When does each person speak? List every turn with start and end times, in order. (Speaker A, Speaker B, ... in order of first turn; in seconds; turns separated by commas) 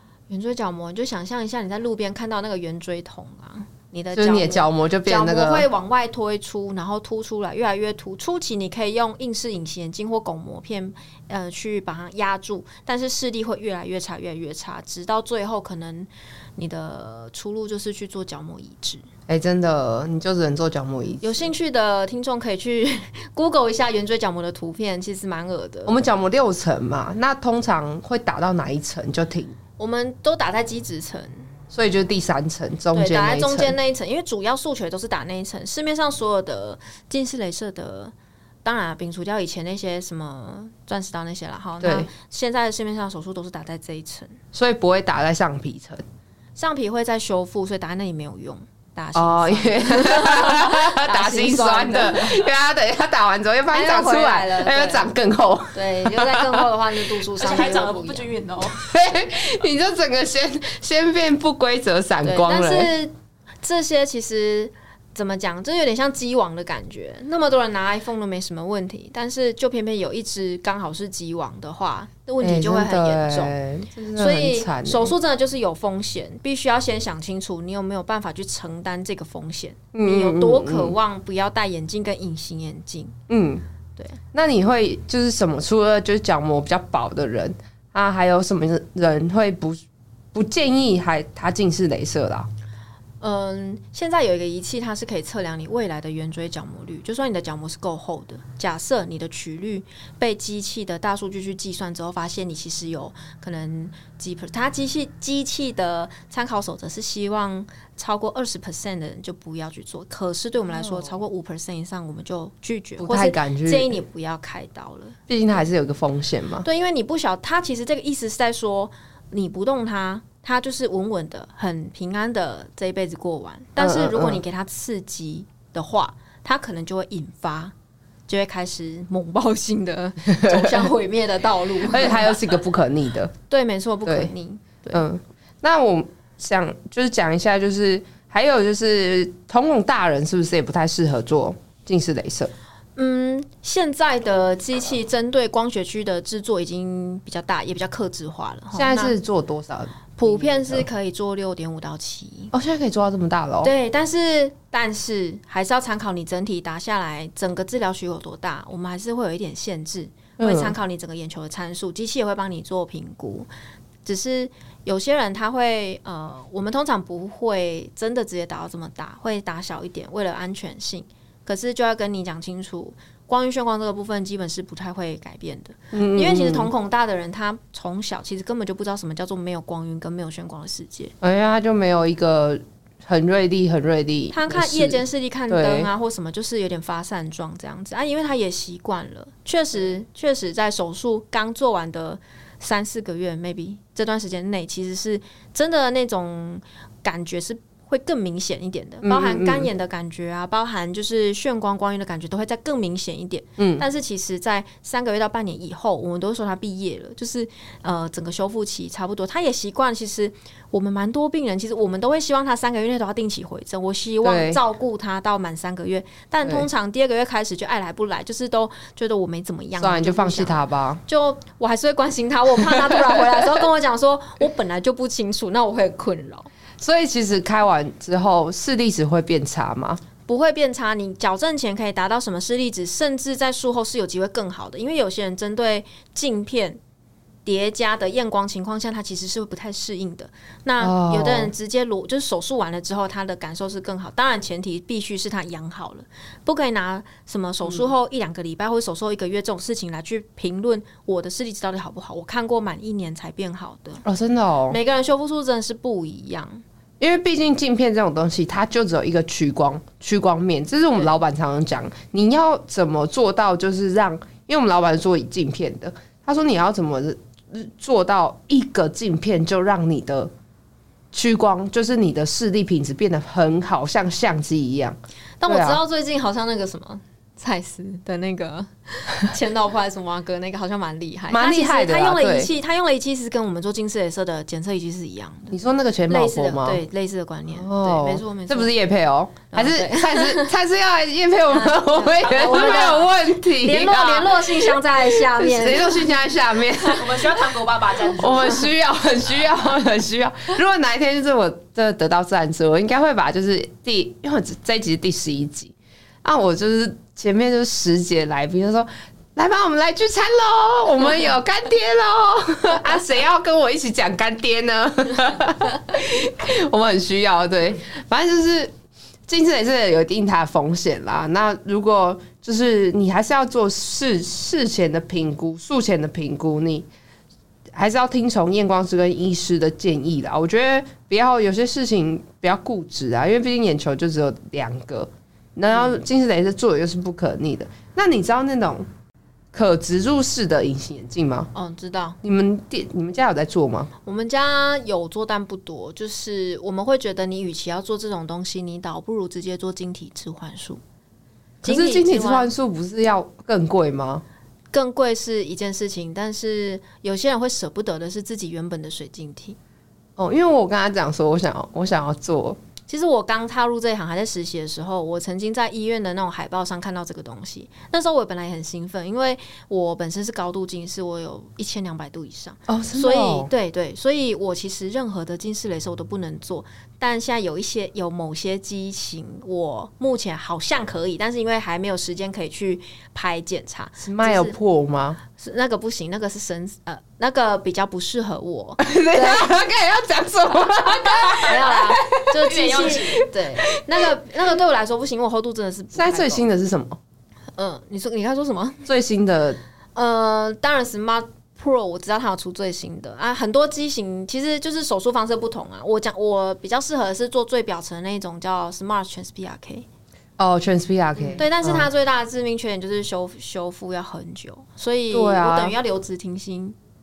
Speaker A: 0.3-19.1, Speaker B: 4.1-5.7, Speaker B: 19.3-21.5, Speaker A: 21.2-26.0, Speaker B: 25.9-29.6, Speaker A: 29.8-31.5, Speaker B: 31.7-33.8, Speaker A: 32.9-38.1, Speaker A: 38.6-44.4, Speaker B: 41.8-42.1, Speaker B: 44.5-46.0, Speaker A: 46.6-52.4, Speaker B: 49.1-56.7, Speaker A: 53.7-55.1, Speaker A: 55.7-58.3, Speaker C: 57.4-58.8, Speaker B: 58.6-63.0, Speaker A: 62.2-73.6, Speaker B: 72.4-75.2, Speaker A: 74.1-83.1, Speaker B: 79.9-81.0, Speaker B: 83.3-83.6, Speaker B: 84.3-89.8, Speaker B: 90.3-92.5, Speaker A: 93.2-115.2, Speaker B: 110.7-111.2, Speaker B: 113.0-114.0, Speaker B: 115.3-116.6, Speaker A: 116.6-127.7, Speaker B: 123.8-124.4, Speaker A: 128.3-132.4, Speaker B: 130.3-130.9, Speaker B: 131.8-133.3, Speaker A: 133.5-135.0, Speaker B: 134.1-134.3, Speaker B: 134.9-142.5, Speaker A: 143.0-149.2, Speaker B: 148.7-150.9, Speaker A: 150.2-152.5, Speaker B: 152.5-153.7, Speaker A: 153.6-163.5, Speaker B: 160.4-160.8, Speaker A: 164.1-181.1, Speaker B: 175.9-176.7, Speaker B: 181.2-185.9, Speaker A: 184.3-226.5, Speaker B: 199.0-199.7, Speaker B: 203.6-203.8, Speaker B: 214.2-214.6, Speaker B: 219.8-221.0, Speaker B: 226.8-230.0, Speaker A: 230.3-236.8, Speaker A: 237.4-254.0, Speaker B: 240.8-241.5, Speaker B: 254.1-254.8, Speaker A: 254.7-256.6, Speaker B: 257.0-270.3, Speaker B: 271.1-275.8, Speaker A: 275.4-285.6, Speaker B: 281.3-282.5, Speaker B: 285.5-286.8, Speaker A: 286.1-288.7, Speaker B: 287.5-297.3, Speaker A: 289.5-290.5, Speaker A: 291.5-296.7, Speaker C: 292.2-293.0, Speaker C: 296.8-298.7, Speaker B: 298.1-318.7, Speaker B: 319.3-326.9, Speaker B: 327.8-338.9, Speaker A: 335.7-336.0, Speaker B: 339.5-341.5, Speaker A: 341.5-342.2, Speaker B: 342.2-343.9, Speaker A: 344.0-350.8, Speaker A: 351.6-352.5, Speaker B: 351.6-354.2, Speaker A: 354.7-359.6, Speaker B: 360.2-362.6, Speaker A: 362.9-384.6, Speaker B: 372.7-373.5, Speaker B: 384.0-385.2, Speaker A: 385.3-389.6, Speaker B: 388.8-392.2, Speaker C: 391.1-391.5, Speaker A: 391.3-396.5, Speaker C: 392.3-393.2, Speaker B: 395.9-397.0, Speaker A: 397.6-398.8, Speaker B: 398.9-399.6, Speaker A: 399.9-409.9, Speaker B: 410.4-411.9, Speaker A: 411.4-416.8, Speaker B: 415.1-415.8